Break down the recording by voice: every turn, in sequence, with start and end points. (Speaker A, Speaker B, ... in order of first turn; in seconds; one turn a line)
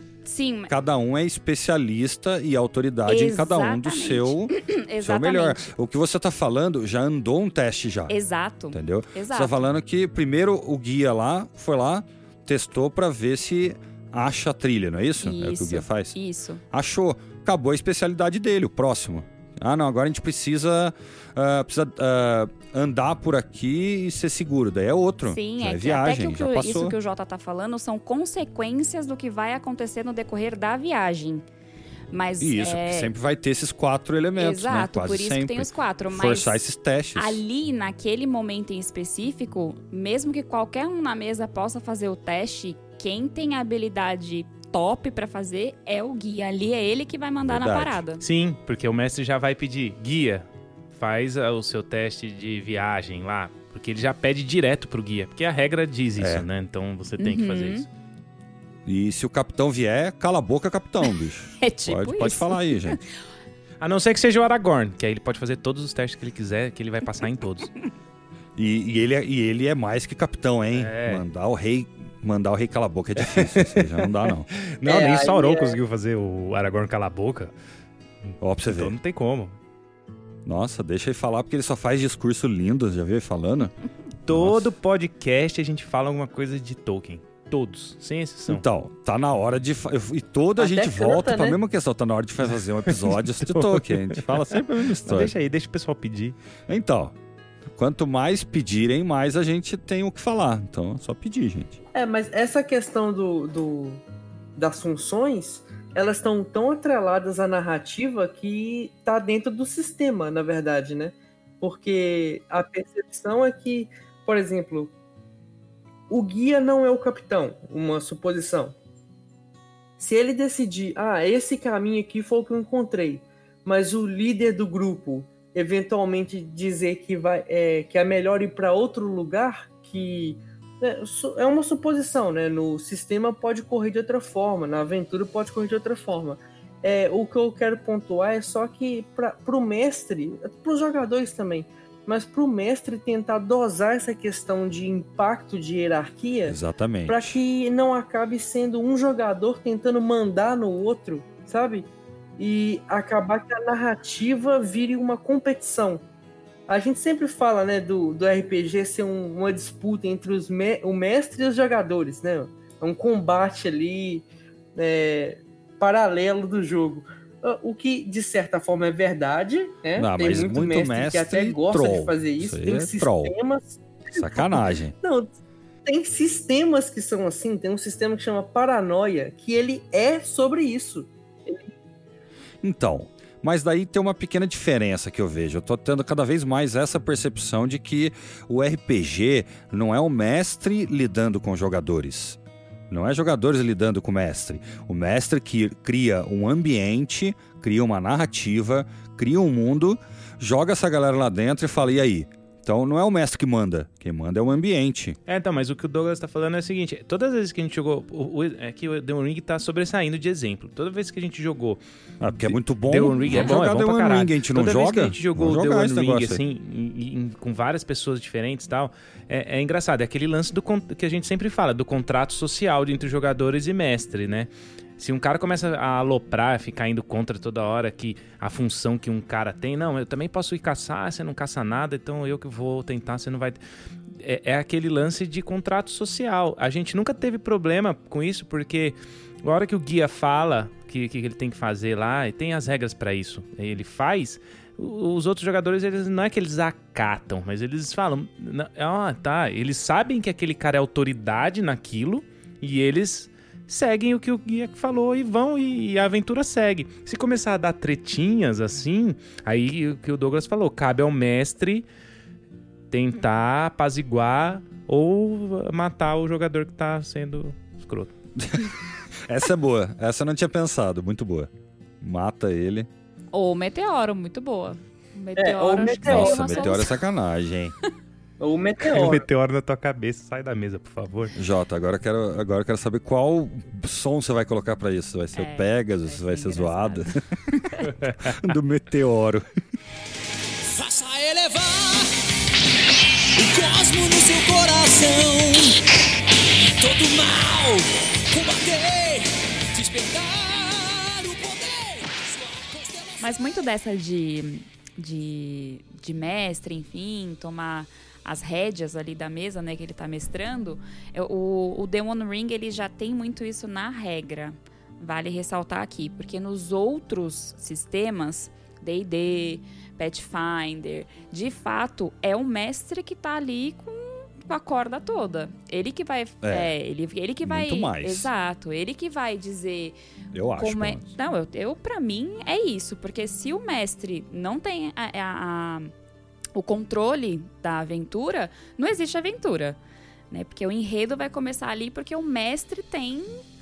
Speaker A: 0.2-0.7
Speaker B: 0.7-8.1
Speaker A: 3.1-5.7
Speaker A: 8.1-9.6
Speaker B: 8.7-16.2
Speaker A: 15.2-16.6
Speaker B: 16.7-26.9
Speaker A: 25.2-31.4
Speaker A: 32.1-33.1
Speaker B: 32.4-37.4
Speaker A: 34.4-36.6
Speaker A: 37.1-48.2
Speaker B: 47.4-48.0
Speaker C: 48.2-57.9
Speaker B: 56.2-56.5
Speaker A: 57.2-57.9
Speaker B: 58.9-63.0
Speaker A: 61.6-63.0
Speaker C: 63.8-67.7
Speaker B: 68.5-74.5
Speaker C: 70.7-71.2
Speaker C: 73.2-77.5
Speaker D: 74.8-75.8
Speaker C: 78.3-79.6
Speaker B: 78.4-79.0
Speaker B: 80.5-83.7
Speaker C: 84.3-88.6
Speaker B: 84.3-84.7
Speaker B: 88.5-95.3
Speaker D: 90.6-91.6
Speaker C: 92.9-94.4
Speaker C: 95.0-96.4
Speaker B: 96.7-97.1
Speaker B: 97.8-101.8
Speaker D: 101.9-104.0
Speaker D: 104.5-114.9
Speaker D: 116.1-118.7
Speaker D: 120.0-146.6
Speaker B: 146.4-147.4
Speaker D: 147.1-156.0
Speaker D: 156.7-175.3
Speaker B: 169.9-173.3
Speaker B: 174.2-174.9
Speaker D: 175.8-181.7
Speaker B: 182.6-192.4
Speaker B: 192.9-205.2
Speaker C: 205.3-211.8
Speaker B: 212.2-216.4
Speaker C: 212.4-233.6
Speaker C: 234.2-261.9
Speaker C: 262.9-268.1
Speaker B: 268.4-268.7
Speaker B: 269.3-271.5
Speaker B: 272.0-272.9
Speaker A: 273.3-277.0
Speaker D: 275.4-276.8
Speaker B: 275.8-277.7
Speaker D: 278.4-279.2
Speaker C: 278.9-281.3
Speaker B: 281.4-287.2
Speaker A: 285.3-287.9
Speaker B: 288.2-289.4
Speaker E: 290.7-292.1
Speaker E: 293.4-295.8
Speaker E: 296.8-303.4
Speaker A: 303.2-329.9
Speaker B: 326.4-326.7
Speaker B: 327.4-328.3
Speaker B: 330.3-331.1
Speaker A: 330.6-335.9
Speaker A: 336.6-339.8
Speaker A: 340.3-343.4